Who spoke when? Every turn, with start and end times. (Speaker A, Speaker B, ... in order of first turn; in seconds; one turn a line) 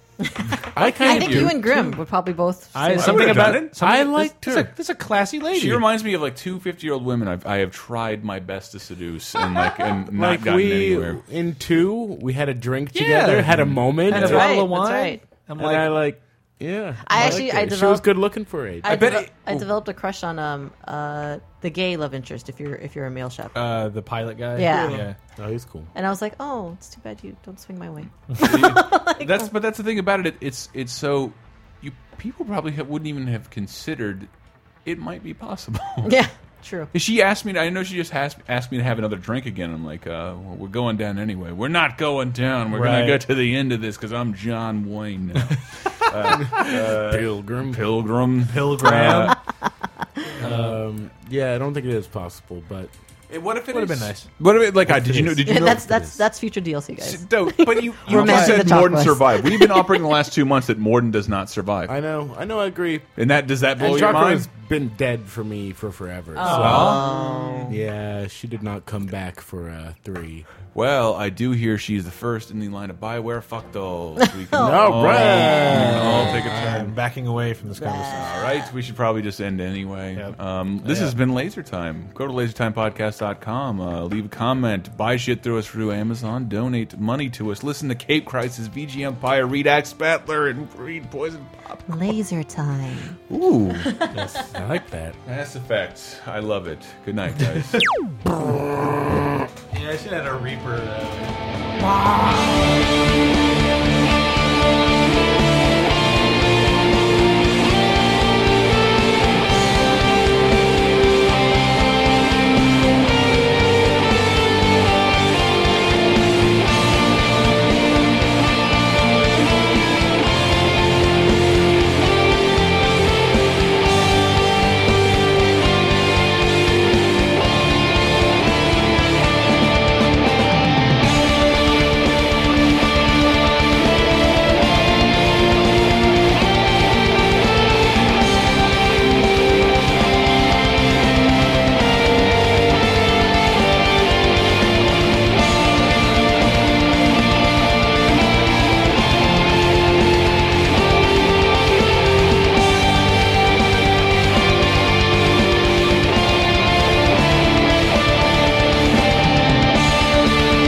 Speaker A: 0.2-3.6
Speaker B: 0.7-1.9
Speaker C: 1.0-1.5
Speaker D: 2.7-5.8
Speaker C: 3.0-3.7
Speaker B: 3.5-4.7
Speaker C: 5.5-11.2
Speaker B: 10.1-14.5
Speaker D: 12.9-16.0
Speaker C: 13.5-14.4
Speaker A: 14.2-15.2
Speaker B: 15.6-19.1
Speaker A: 17.0-18.1
Speaker A: 18.8-23.6
Speaker D: 18.9-19.3
Speaker C: 18.9-19.2
Speaker D: 23.5-25.2
Speaker A: 24.6-25.0
Speaker B: 24.8-25.9
Speaker A: 25.9-29.5
Speaker C: 28.4-34.3
Speaker C: 34.9-36.2
Speaker A: 36.0-36.9
Speaker C: 36.9-49.4
Speaker D: 42.7-43.2
Speaker B: 46.3-47.8
Speaker D: 48.5-49.4
Speaker D: 50.4-50.8
Speaker B: 50.4-52.9
Speaker C: 53.3-56.1
Speaker D: 53.7-54.3
Speaker D: 55.1-55.5
Speaker B: 55.1-56.2
Speaker A: 55.5-60.2
Speaker C: 57.0-62.0
Speaker D: 58.1-58.8
Speaker B: 61.9-63.1
Speaker C: 63.2-64.5
Speaker B: 63.7-67.1
Speaker A: 66.4-67.8
Speaker C: 66.4-67.7
Speaker D: 66.5-67.0
Speaker B: 67.7-70.5
Speaker C: 70.7-76.9
Speaker A: 74.4-76.6
Speaker B: 74.6-76.9
Speaker D: 75.7-78.1
Speaker C: 77.8-91.9
Speaker A: 77.8-78.7
Speaker D: 80.2-81.1
Speaker A: 91.9-93.2
Speaker C: 93.3-94.1
Speaker A: 93.9-94.2
Speaker D: 94.1-94.5
Speaker B: 94.3-95.2
Speaker C: 95.2-97.9
Speaker D: 99.7-102.1